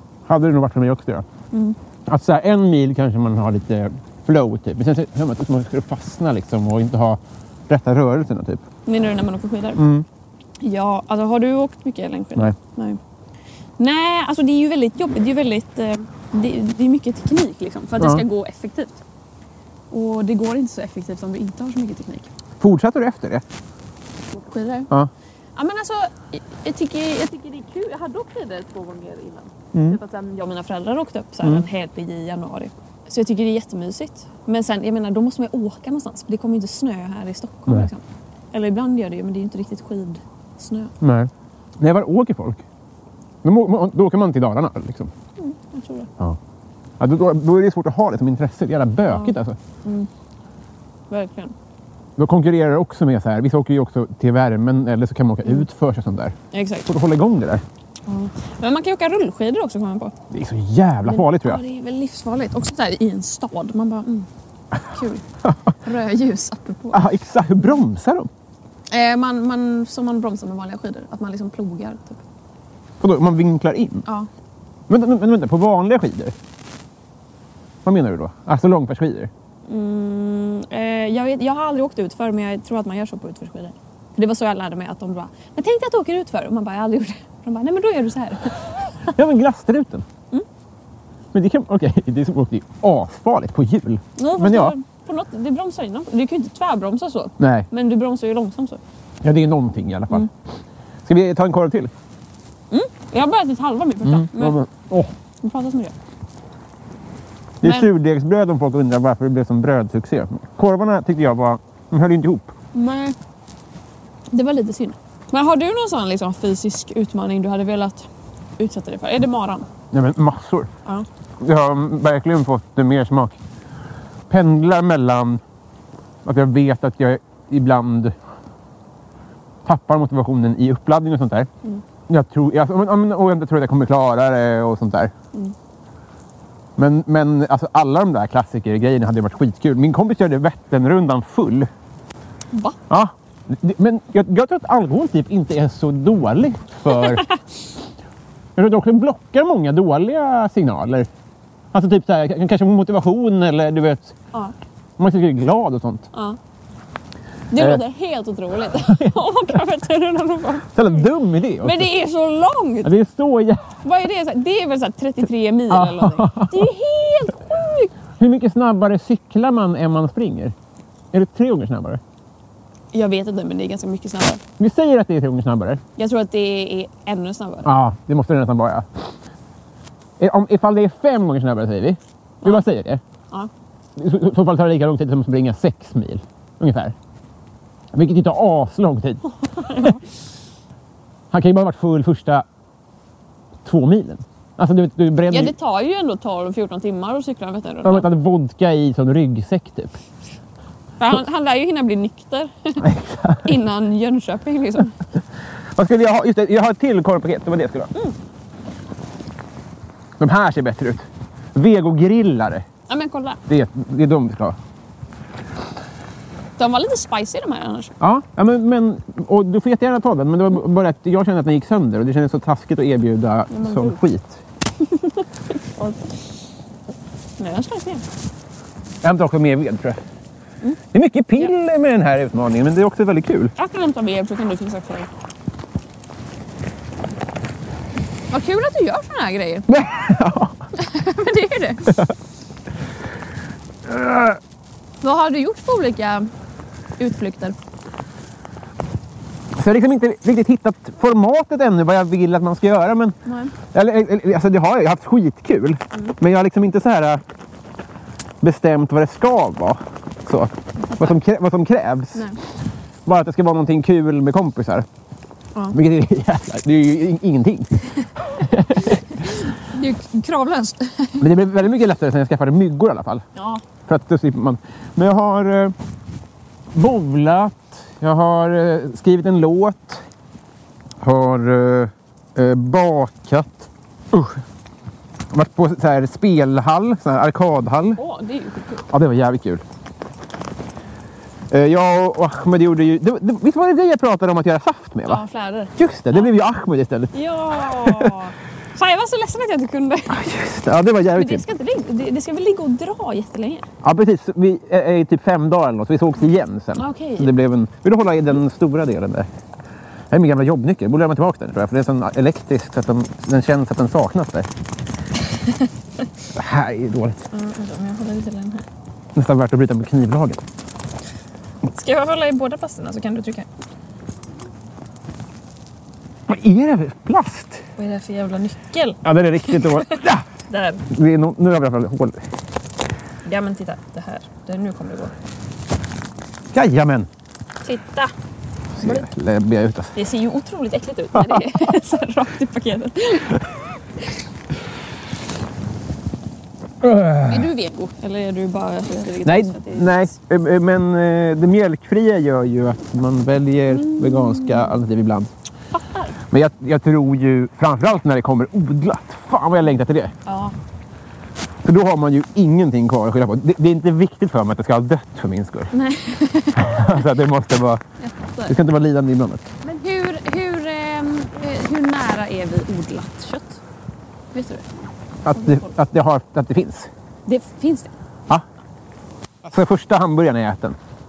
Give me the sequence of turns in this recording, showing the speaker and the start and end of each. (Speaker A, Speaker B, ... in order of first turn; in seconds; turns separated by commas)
Speaker A: 0.3-1.2, Speaker A: 2.0-8.6, Speaker B: 8.8-9.8, Speaker A: 9.8-10.1, Speaker B: 10.6-13.0, Speaker B: 13.8-19.0, Speaker A: 18.0-18.2, Speaker B: 19.9-22.3, Speaker A: 22.6-23.4, Speaker B: 24.3-24.9, Speaker B: 25.6-40.9, Speaker A: 29.7-30.0, Speaker A: 41.0-42.6, Speaker A: 43.4-45.1, Speaker B: 45.4-46.1, Speaker A: 47.0-49.5, Speaker B: 49.1-50.1, Speaker B: 51.1-51.5, Speaker A: 52.2-57.6, Speaker B: 56.5-56.9, Speaker B: 58.0-60.1, Speaker A: 60.3-61.6, Speaker B: 61.0-64.3, Speaker B: 64.8-65.2, Speaker B: 65.8-67.0, Speaker A: 66.9-68.3, Speaker B: 68.9-72.2, Speaker A: 73.0-74.0, Speaker A: 74.9-76.3, Speaker A: 77.8-79.3, Speaker B: 79.7-88.6, Speaker A: 89.1-90.0, Speaker A: 91.3-94.7, Speaker B: 94.2-98.8, Speaker A: 97.4-97.7, Speaker A: 99.2-100.3, Speaker A: 101.0-101.9, Speaker B: 102.7-104.6, Speaker A: 104.0-105.1, Speaker B: 105.4-105.9, Speaker A: 107.6-112.5, Speaker B: 107.6-107.9, Speaker B: 112.7-113.2, Speaker B: 114.3-118.1, Speaker B: 118.6-119.7, Speaker A: 119.9-120.7, Speaker A: 121.4-123.4, Speaker A: 124.3-125.4, Speaker A: 126.2-128.2, Speaker A: 129.6-131.5, Speaker A: 132.1-135.1, Speaker A: 136.8-141.7, Speaker B: 142.5-142.8, Speaker A: 142.9-147.2, Speaker B: 146.9-147.3, Speaker A: 148.6-151.1, Speaker A: 151.7-154.1, Speaker A: 155.0-156.1, Speaker B: 156.1-156.4, Speaker B: 157.5-161.1, Speaker A: 158.7-159.2, Speaker A: 160.7-161.9, Speaker B: 161.6-162.9, Speaker A: 162.8-163.7, Speaker B: 163.8-167.9, Speaker A: 165.7-166.7, Speaker A: 168.2-170.5, Speaker A: 171.1-172.0, Speaker B: 172.9-174.4, Speaker A: 174.6-175.8, Speaker B: 176.0-177.7, Speaker A: 177.6-179.1, Speaker A: 180.2-183.0, Speaker A: 183.9-186.9, Speaker A: 187.9-189.9, Speaker B: 189.6-189.9, Speaker A: 191.3-192.4, Speaker A: 193.6-195.5, Speaker B: 195.3-198.1, Speaker A: 197.8-200.0, Speaker B: 201.0-202.9, Speaker A: 202.8-203.5, Speaker B: 203.4-204.9, Speaker A: 205.8-207.9, Speaker A: 210.2-212.7, Speaker B: 212.9-213.4, Speaker A: 213.5-214.6, Speaker B: 216.6-217.9, Speaker A: 218.0-224.4, Speaker B: 223.5-224.0, Speaker B: 224.8-226.2, Speaker B: 227.4-228.0, Speaker A: 229.0-230.0, Speaker A: 230.9-233.5, Speaker B: 233.6-235.1, Speaker B: 238.3-239.7, Speaker A: 239.7-240.6, Speaker B: 240.8-242.0, Speaker A: 243.8-244.4, Speaker B: 245.0-246.3, Speaker B: 247.0-247.5, Speaker A: 249.5-253.2, Speaker B: 253.2-253.5, Speaker A: 253.7-257.2, Speaker A: 258.4-262.3, Speaker A: 263.1-264.9, Speaker A: 265.7-267.7, Speaker A: 268.3-269.2, Speaker B: 268.8-271.2, Speaker A: 271.2-273.2, Speaker B: 273.4-273.6, Speaker A: 273.9-275.7, Speaker A: 276.7-280.0, Speaker A: 281.0-284.4, Speaker A: 285.3-288.0, Speaker B: 287.9-288.8, Speaker A: 288.9-289.6, Speaker A: 291.5-295.2, Speaker B: 295.1-296.3, Speaker A: 295.8-298.1, Speaker B: 297.1-300.2, Speaker A: 300.1-301.4, Speaker B: 301.1-303.6, Speaker A: 303.8-309.3, Speaker B: 306.8-307.3, Speaker A: 310.1-314.5, Speaker A: 316.3-317.2, Speaker B: 317.3-318.6, Speaker A: 319.1-320.4, Speaker B: 321.7-323.5, Speaker A: 326.3-327.6, Speaker B: 327.8-330.8, Speaker A: 329.0-330.2, Speaker A: 330.9-332.2, Speaker B: 333.2-335.1, Speaker A: 336.5-337.1, Speaker B: 337.6-338.1, Speaker A: 338.8-340.0, Speaker B: 338.8-339.1, Speaker B: 339.9-343.4, Speaker A: 341.1-341.6, Speaker A: 346.8-347.5, Speaker B: 347.3-350.1, Speaker A: 349.2-355.3, Speaker B: 353.7-354.8, Speaker B: 355.7-356.1, Speaker A: 356.3-360.1, Speaker B: 360.2-360.6, Speaker A: 361.6-365.7, Speaker B: 365.7-367.0, Speaker A: 366.6-367.8, Speaker B: 368.0-368.6, Speaker A: 368.5-369.5, Speaker B: 369.6-373.6, Speaker B: 374.3-374.7, Speaker A: 375.2-376.9, Speaker B: 375.3-375.7, Speaker B: 377.2-377.9, Speaker A: 379.4-380.8